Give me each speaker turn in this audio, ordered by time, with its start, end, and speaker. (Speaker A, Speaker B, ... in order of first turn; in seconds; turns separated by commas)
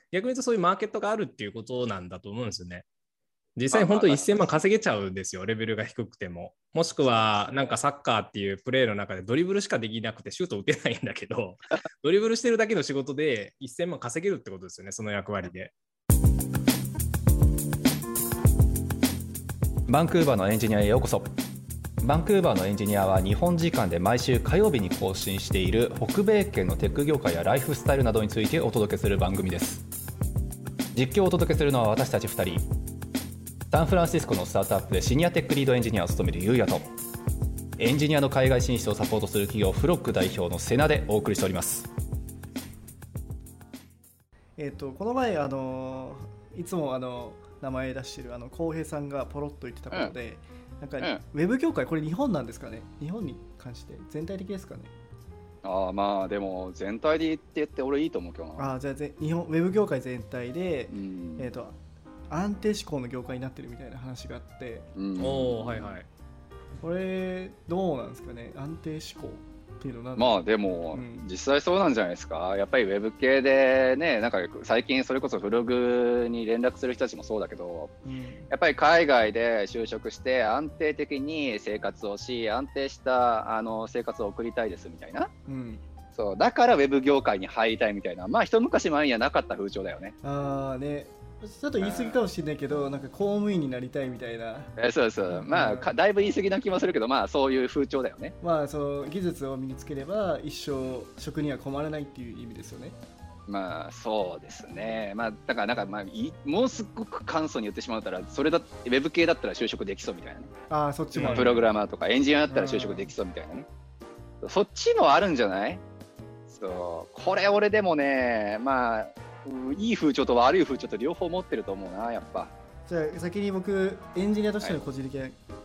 Speaker A: 0.1-2.9, Speaker A: 3.6-15.7, Speaker B: 3.7-4.6, Speaker B: 7.0-7.7, Speaker C: 19.9-21.3, Speaker C: 22.0-29.8, Speaker C: 30.9-32.6, Speaker C: 33.7-36.9, Speaker C: 37.8-41.9, Speaker D: 44.6-54.9, Speaker B: 55.6-58.7, Speaker D: 58.6-61.8, Speaker B: 60.9-61.5, Speaker D: 62.3-64.9, Speaker B: 65.0-65.9, Speaker A: 65.2-66.1, Speaker D: 66.8-70.4, Speaker B: 70.2-77.9, Speaker D: 70.9-71.3, Speaker D: 78.0-78.5, Speaker B: 78.5-85.3, Speaker D: 85.5-85.8, Speaker B: 86.2-90.2, Speaker D: 90.2-94.7, Speaker B: 91.8-92.2, Speaker B: 94.8-98.3, Speaker D: 95.3-95.9, Speaker D: 98.4-103.0, Speaker B: 103.5-110.5, Speaker D: 110.7-111.7, Speaker A: 111.1-111.6, Speaker B: 111.3-113.7, Speaker D: 112.5-113.1, Speaker B: 114.4-115.8, Speaker B: 116.5-122.5, Speaker D: 122.9-125.4